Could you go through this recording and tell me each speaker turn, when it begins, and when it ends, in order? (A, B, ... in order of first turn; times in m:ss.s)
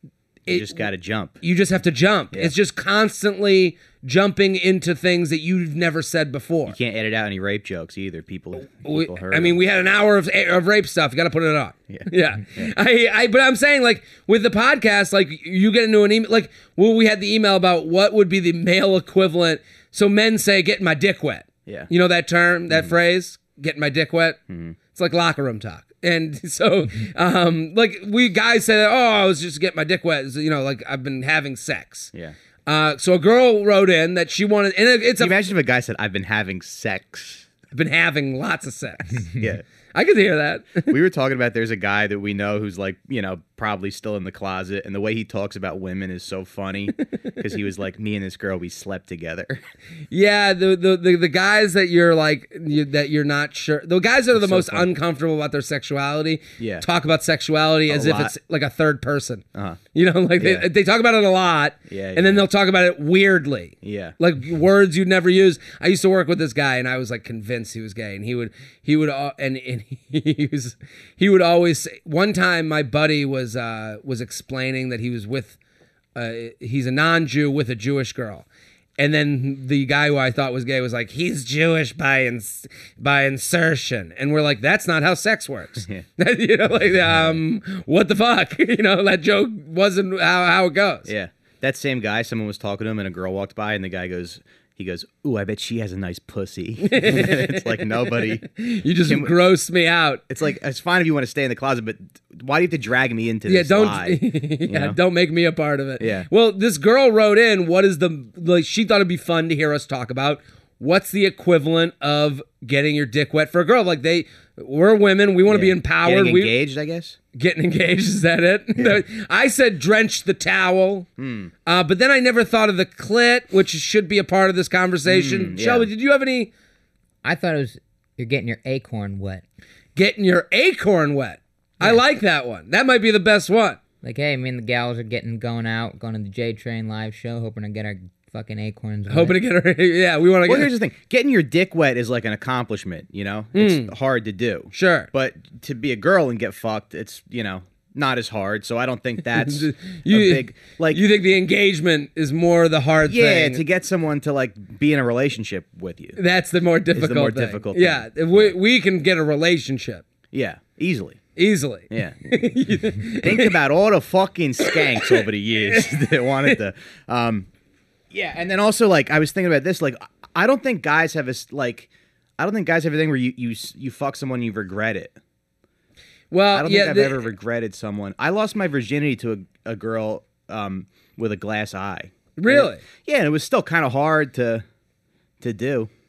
0:00.4-0:00.8 A
0:00.5-0:01.4 B
0:01.4-0:06.8 A
0:06.6-0:09.6 B
0:08.8-0:24.4 A
0:11.9-0:12.7 B
0:24.5-0:24.8 B
0:24.9-0:32.1 A
0:32.6-0:35.4 A
0:35.2-0:37.5 B
0:37.7-0:40.9 A
0:40.9-0:49.6 B
0:50.1-1:15.6 A
0:54.3-0:54.9 B
0:56.6-0:56.8 B
0:57.9-0:58.3 B
0:59.5-0:59.8 B
1:00.4-1:00.7 B
1:01.9-1:02.4 B
1:03.8-1:04.1 B
1:16.1-1:18.4 A
1:19.0-1:31.1 A
1:27.1-1:27.4 B
1:31.0-1:38.5 B
1:36.8-1:40.2 A
1:39.0-1:39.3 B
1:40.3-1:45.0 B
1:43.5-1:56.5 A
1:46.0-1:46.3 B
1:55.5-1:57.2 B
1:57.3-2:01.1 A
1:58.8-1:59.0 B
2:01.2-2:01.5 B
2:01.6-2:06.5 A
2:05.0-2:05.9 B
2:07.2-2:09.4 C
2:10.0-2:13.8 A
2:14.0-2:19.4 C
2:19.1-2:20.7 A
2:20.4-2:31.0 B
2:23.5-2:23.9 A
2:24.7-2:25.1 A
2:29.3-2:33.6 A
2:33.1-2:36.2 B
2:36.2-2:40.0 A
2:36.9-2:38.5 B
2:40.3-2:41.2 B
2:41.4-2:43.6 A
2:41.9-2:42.2 B
2:43.2-2:47.5 B
2:44.6-2:46.6 A
2:48.1-2:55.2 B
2:56.3-2:57.2 A
2:56.5-3:04.6 B
3:02.4-3:02.8 A
3:05.4-3:05.9 B